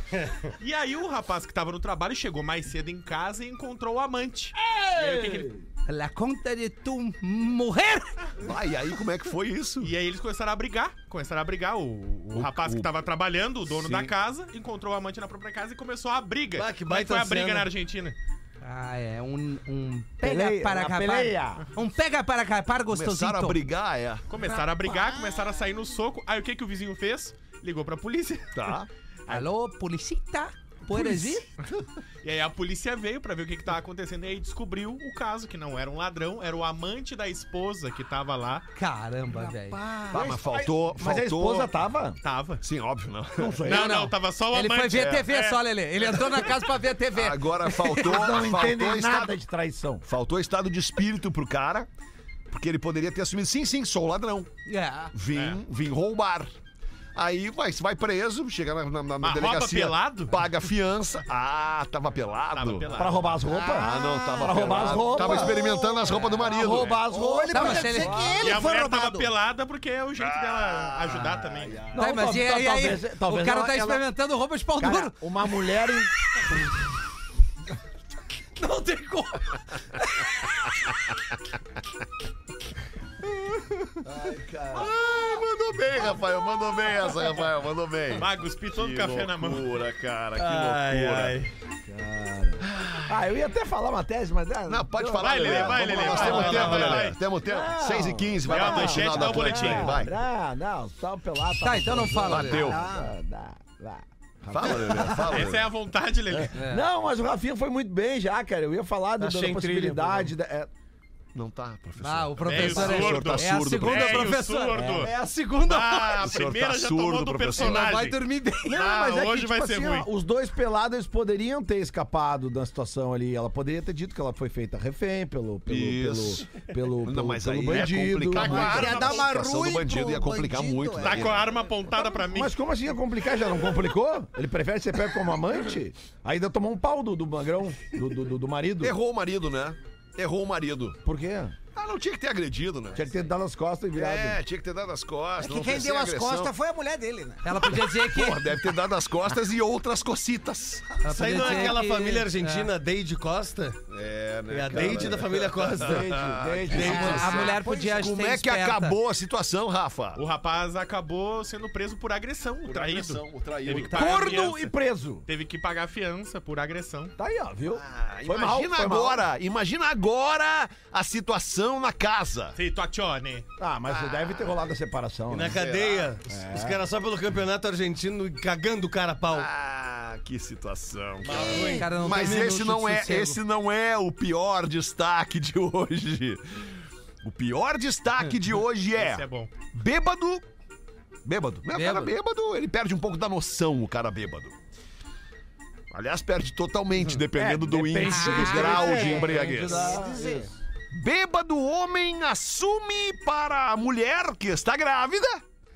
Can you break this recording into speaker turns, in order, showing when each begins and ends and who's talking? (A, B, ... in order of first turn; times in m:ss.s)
0:00.5-0:05.5 A
0:04.6-0:05.6 B
0:05.9-0:08.2 C
0:08.4-0:09.9 D
0:09.8-0:18.2 A
0:12.3-0:12.9 D
0:13.7-0:14.1 D
0:16.6-0:17.7 E
0:18.6-0:23.6 C
0:20.2-0:21.6 B
0:22.9-0:24.3 D
0:24.3-0:28.8 A
0:25.0-0:25.5 F
0:28.5-0:28.9 D
0:29.3-0:31.4 C
0:32.2-0:38.7 A
0:38.8-0:39.8 C
0:39.4-0:42.2 B
0:40.1-0:41.7 D
0:42.2-0:42.6 A
0:42.6-0:43.8 D
0:43.4-0:44.1 B
0:43.7-0:46.6 A
0:43.7-0:47.9 C
0:44.9-0:45.2 D
0:47.2-0:49.4 D
0:47.9-0:50.0 B
0:50.0-0:51.9 D
0:52.5-0:54.5 D
0:54.7-0:55.1 C
0:55.1-0:56.5 D
0:55.3-0:55.6 A
0:57.2-1:03.1 D
0:59.2-1:00.4 A
1:02.5-1:03.4 A
1:03.0-1:08.6 B
1:03.5-1:06.2 F
1:03.7-1:07.8 D
1:07.1-1:09.3 F
1:07.5-1:08.3 C
1:08.4-1:11.9 A
1:10.2-1:12.1 D
1:11.9-1:14.0 B
1:12.0-1:15.2 C
1:14.8-1:16.1 B
1:18.6-1:20.7 C
1:24.0-1:24.9 B
1:24.2-1:31.4 D
1:28.2-1:29.8 A
1:30.4-1:31.5 E
1:31.9-1:45.3 B
1:32.6-1:33.3 D
1:34.7-1:40.2 D
1:35.2-1:37.2 A
1:38.5-1:40.0 A
1:41.6-1:42.7 C
1:42.2-1:42.8 D
1:42.6-1:43.2 F
1:44.5-1:45.7 D
1:45.1-1:46.6 A
1:46.3-1:50.7 B
1:46.6-1:46.8 C
1:49.2-1:50.3 E
1:51.3-1:54.4 D
1:52.0-1:56.2 C
1:52.4-1:55.1 A
1:54.7-1:55.1 B
1:55.6-2:00.1 A
1:55.9-1:58.0 D
1:57.6-1:58.8 C
1:58.7-2:08.8 B
2:05.7-2:06.5 D
2:07.0-2:11.5 D
2:08.4-2:12.2 F
2:08.4-2:09.3 A
2:11.0-2:12.6 A
2:12.3-2:19.0 B
2:18.8-2:21.0 D
2:21.0-2:21.6 B
2:21.8-2:23.2 D
2:23.0-2:24.4 B
2:23.9-2:26.5 D
2:25.4-2:27.9 F
2:27.4-2:28.5 C
2:28.1-2:31.6 D
2:31.0-2:32.7 C
2:31.1-2:33.8 E
2:33.9-2:40.2 D
2:34.5-2:37.4 E
2:34.8-2:35.2 B
2:35.8-2:37.6 B
2:36.8-2:39.0 C
2:40.2-2:44.7 A
2:42.6-2:44.3 D
2:43.8-2:45.2 B
2:43.9-2:44.5 C
2:45.3-2:47.1 A
2:47.2-2:49.2 B
2:47.7-2:52.6 D
2:52.6-2:53.5 A
2:53.6-2:55.6 B
2:53.9-2:54.6 D
2:55.3-2:59.5 E
2:55.4-2:56.2 D
2:56.3-2:56.8 B
2:59.3-3:10.4 D
3:01.2-3:01.9 E
3:01.3-3:01.9 F
3:01.8-3:03.4 C
3:09.0-3:09.5 A
3:11.2-3:14.6 D
3:11.7-3:12.1 C
3:15.9-3:19.9 D
3:17.3-3:20.5 B
3:18.1-3:20.0 C
3:18.9-3:20.5 F
3:20.9-3:25.4 D